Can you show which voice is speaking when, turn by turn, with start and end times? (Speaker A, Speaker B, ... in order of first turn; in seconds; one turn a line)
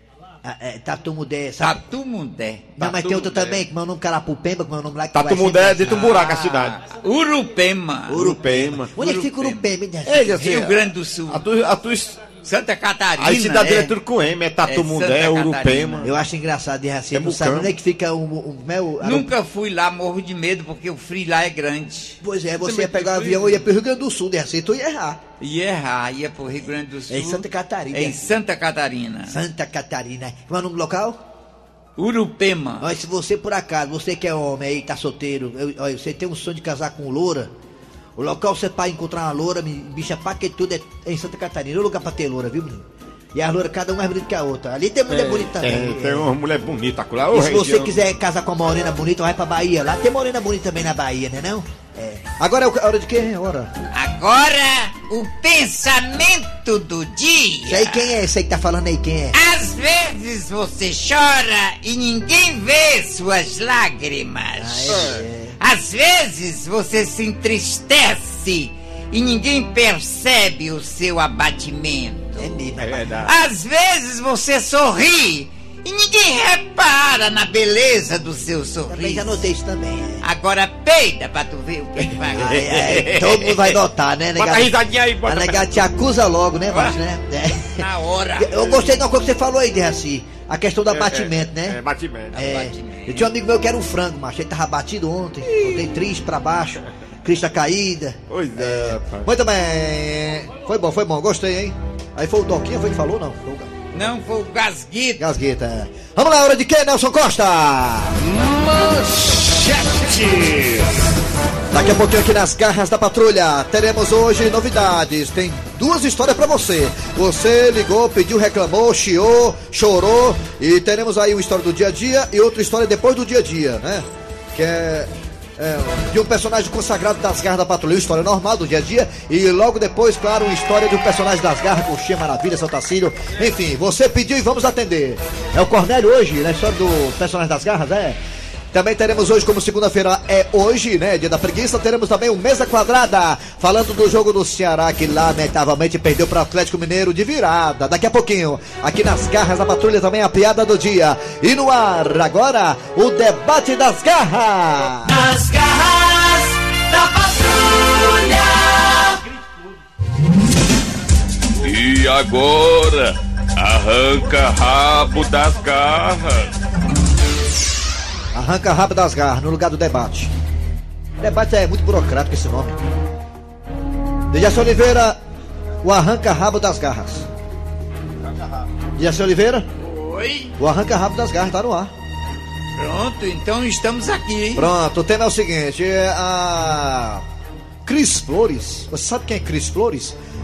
Speaker A: 0.4-1.8
Speaker B: 1.6-3.6
Speaker A: 2.8-6.3
Speaker C: 5.1-6.8
Speaker B: 5.9-8.4
Speaker A: 8.1-10.7
Speaker C: 8.2-8.9
Speaker B: 8.9-9.6
Speaker C: 10.1-10.7
Speaker B: 10.3-11.4
Speaker C: 11.3-12.2
Speaker B: 12.4-14.0
Speaker C: 13.2-16.1
Speaker B: 14.6-16.1
Speaker A: 16.0-19.3
Speaker C: 17.1-17.7
Speaker B: 19.0-23.6
Speaker A: 22.2-25.2
Speaker B: 25.4-29.4
Speaker A: 27.1-28.3
Speaker A: 29.3-31.2
Speaker B: 32.0-32.9
Speaker A: 32.8-37.5
Speaker A: 38.2-46.3
Speaker C: 45.1-47.9
Speaker A: 47.3-52.3
Speaker D: 52.4-53.7
Speaker B: 53.9-58.1
Speaker A: 57.6-59.4
Speaker B: 59.3-72.6
Speaker A: 64.6-65.6
Speaker A: 72.4-73.3
Speaker C: 73.0-73.2
Speaker B: 73.2-79.4
Speaker A: 78.9-80.2
Speaker B: 80.2-83.3
Speaker A: 82.3-87.8
Speaker C: 84.4-85.7
Speaker B: 86.7-87.0
Speaker B: 87.5-88.8
Speaker A: 88.4-91.8
Speaker C: 90.9-92.5
Speaker A: 92.3-98.2
Speaker B: 92.4-93.3
Speaker C: 98.3-99.3
Speaker D: 98.6-103.7
Speaker B: 103.9-105.2
Speaker D: 105.2-108.2
Speaker D: 111.7-138.2
Speaker D: 138.7-155.3
Speaker E: 161.6-166.5
Speaker D: 168.3-170.3
Speaker D: 171.2-172.8
Speaker D: 174.3-175.2
Speaker D: 175.8-177.3
Speaker D: 179.0-179.7
Speaker B: 179.8-180.6
Speaker D: 180.6-181.9
Speaker B: 182.8-184.7
Speaker D: 184.6-187.2
Speaker D: 187.8-190.2